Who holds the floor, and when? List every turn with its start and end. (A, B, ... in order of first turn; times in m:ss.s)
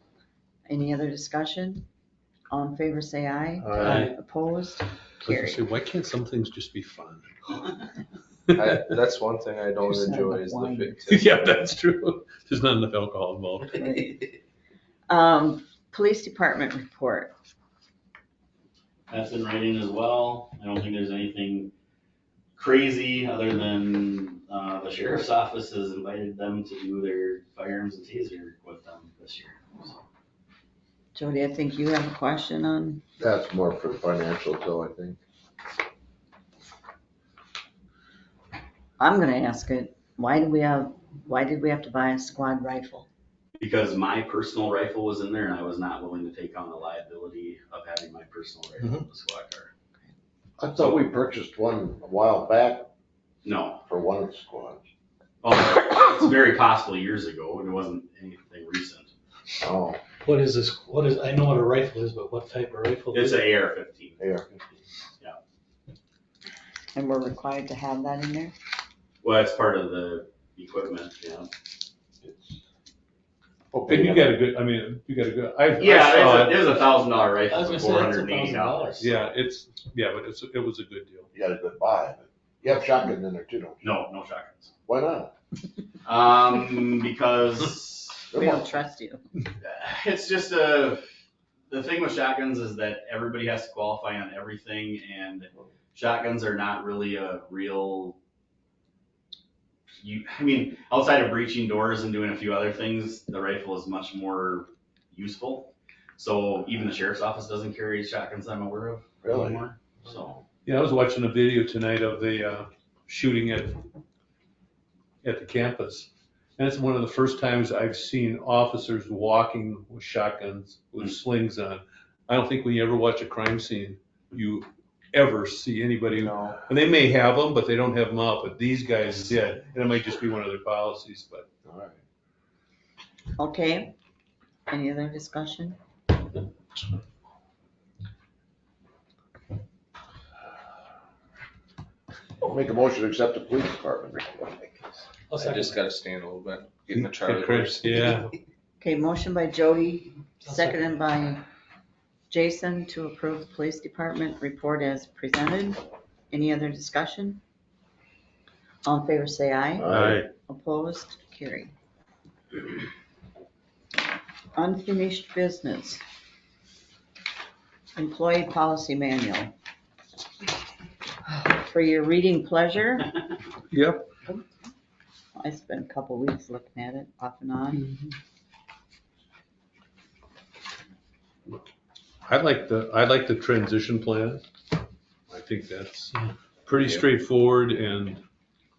0:00.7-0:01.9 A
0:02.5-0:05.6 A
0:03.6-0:04.1 B
0:03.8-0:04.1 C
0:05.2-0:07.8 C
0:08.5-0:08.9 C
0:08.6-0:11.4 D
0:09.9-0:11.0 A
0:11.1-0:14.1 C
0:13.7-0:14.2 A
0:15.1-0:17.3 A
0:19.1-0:21.7 E
0:22.6-0:30.0 E
0:31.2-0:33.0 A
0:33.2-0:35.2 B
0:39.0-0:43.1 A
0:43.6-0:49.7 E
0:50.6-0:52.9 B
0:53.4-0:53.8 E
0:53.9-0:54.8 B
0:55.4-0:59.1 E
0:59.6-1:00.0 B
1:00.2-1:03.5 F
1:03.1-1:04.2 E
1:04.2-1:04.5 B
1:06.9-1:08.6 A
1:09.2-1:11.5 E
1:12.2-1:12.6 B
1:13.7-1:14.4 B
1:13.9-1:16.7 C
1:15.8-1:19.1 E
1:17.5-1:19.1 F
1:19.0-1:21.3 C
1:21.3-1:23.8 B
1:23.8-1:24.7 E
1:24.9-1:25.3 B
1:26.0-1:28.3 E
1:28.3-1:28.7 B
1:28.3-1:29.2 A
1:29.6-1:31.0 E
1:31.7-1:38.2 E
1:40.0-1:50.4 E
1:49.2-1:49.6 B
1:50.7-1:53.8 C
1:55.2-2:11.5 C
2:11.6-2:12.0 B
2:13.4-2:13.9 A
2:14.7-2:15.8 A
2:22.4-2:24.9 B
2:25.3-2:25.8 F
2:25.4-2:28.0 D
2:26.9-2:28.3 C
2:28.8-2:31.4 A
2:30.4-2:30.8 F
2:32.3-2:37.4 A
2:38.8-2:39.9 A
2:39.8-2:40.2 B
2:39.9-2:40.3 C
2:40.5-2:41.7 A
2:44.6-2:46.0 A
2:48.0-2:49.6 A
2:51.2-2:53.2 A
2:53.7-2:54.1 C
2:55.4-2:57.9 A
3:02.2-3:04.4 C
3:05.3-3:08.2 C